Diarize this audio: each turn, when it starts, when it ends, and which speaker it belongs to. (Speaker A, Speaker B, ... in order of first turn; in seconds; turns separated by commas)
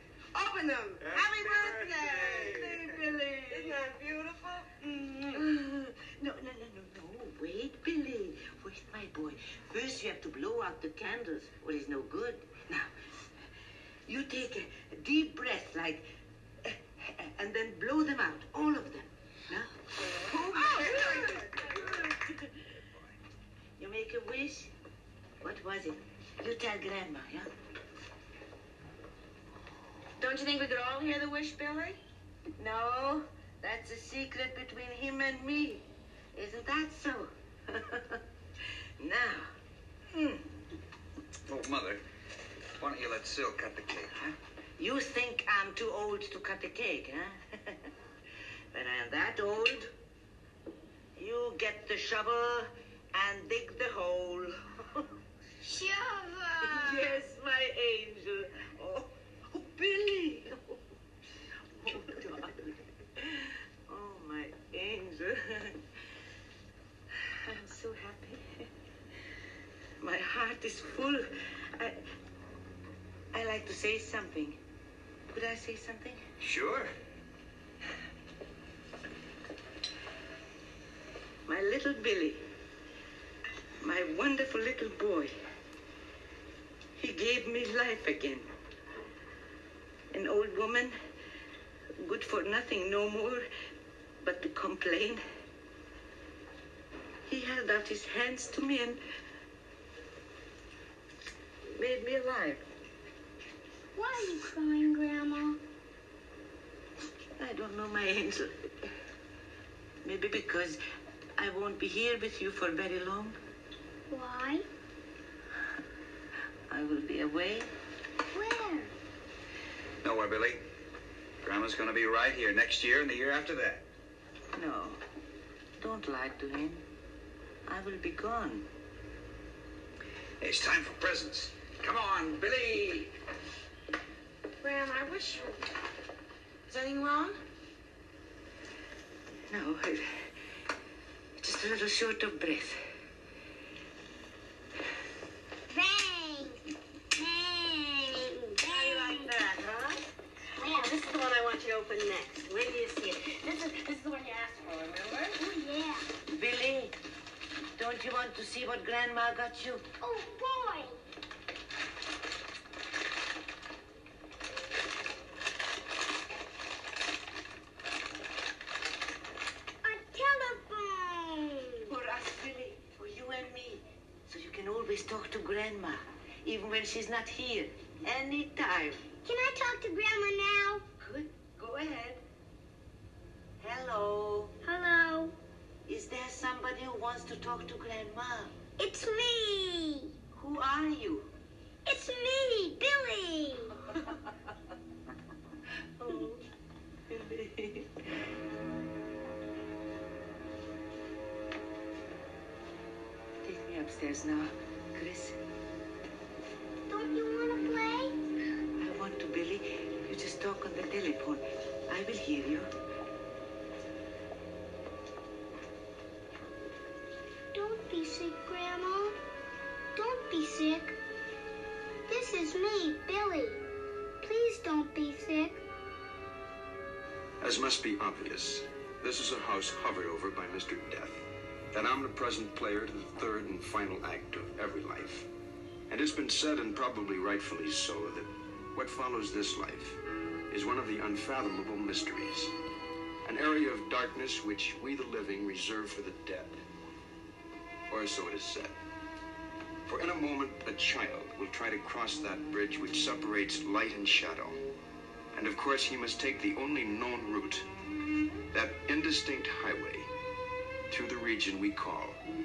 Speaker A: 0.3-2.5, Speaker B: 1.0-3.7, Speaker C: 1.6-3.8, Speaker A: 3.6-5.1, Speaker C: 5.2-12.9, Speaker C: 14.1-16.1, Speaker C: 16.7-22.5, Speaker A: 20.4-21.7, Speaker C: 23.8-24.7, Speaker C: 25.4-27.5, Speaker A: 30.2-32.0, Speaker C: 32.6-38.2, Speaker C: 39.0-39.5, Speaker B: 40.1-40.4, Speaker B: 41.5-42.0, Speaker B: 42.8-44.3, Speaker C: 44.8-47.4, Speaker C: 48.7-49.9, Speaker C: 51.2-55.0, Speaker A: 55.6-57.2, Speaker C: 56.5-60.7, Speaker C: 61.8-62.6, Speaker C: 63.9-65.8, Speaker C: 67.5-68.5, Speaker C: 70.0-72.0, Speaker C: 73.3-74.6, Speaker C: 75.3-76.2, Speaker B: 76.4-76.9, Speaker C: 81.5-82.5, Speaker C: 83.8-85.3, Speaker C: 87.0-88.5, Speaker C: 90.1-91.0, Speaker C: 92.0-93.5, Speaker C: 94.2-95.2, Speaker C: 97.3-99.0, Speaker C: 101.8-102.6, Speaker D: 104.0-105.6, Speaker C: 107.4-108.5, Speaker C: 110.0-110.8, Speaker C: 111.4-113.4, Speaker D: 114.1-114.7, Speaker C: 116.7-117.7, Speaker D: 118.3-118.9, Speaker B: 120.0-120.6, Speaker B: 121.4-123.8, Speaker C: 124.5-125.0, Speaker C: 125.8-126.8, Speaker C: 127.7-128.7, Speaker B: 130.4-133.1, Speaker A: 134.6-135.6, Speaker A: 136.7-137.3, Speaker C: 139.5-140.0, Speaker C: 141.4-142.8, Speaker D: 145.7-146.6, Speaker D: 147.2-149.4, Speaker A: 148.7-149.6, Speaker C: 148.9-149.6, Speaker A: 150.6-155.3, Speaker D: 150.6-151.0, Speaker D: 155.3-156.1, Speaker C: 156.3-156.9, Speaker C: 157.8-159.9, Speaker D: 160.0-161.0, Speaker D: 169.8-171.9, Speaker C: 171.9-179.1, Speaker D: 179.2-180.8, Speaker C: 181.0-182.2, Speaker C: 183.6-184.6, Speaker D: 184.6-185.3, Speaker C: 185.9-188.6, Speaker D: 188.8-190.1, Speaker C: 190.3-191.3, Speaker D: 191.8-193.8, Speaker C: 196.0-196.4, Speaker C: 197.1-197.9, Speaker C: 203.4-205.4, Speaker D: 206.9-208.1, Speaker C: 208.8-212.7, Speaker D: 217.5-219.2, Speaker D: 219.9-220.9, Speaker D: 222.1-223.6, Speaker D: 224.2-225.6, Speaker E: 227.4-235.3, Speaker E: 235.9-240.0, Speaker E: 240.5-242.5, Speaker E: 243.2-246.6, Speaker E: 247.9-248.8, Speaker E: 249.9-254.6, Speaker E: 255.3-257.6, Speaker E: 258.5-260.1, Speaker E: 260.9-262.2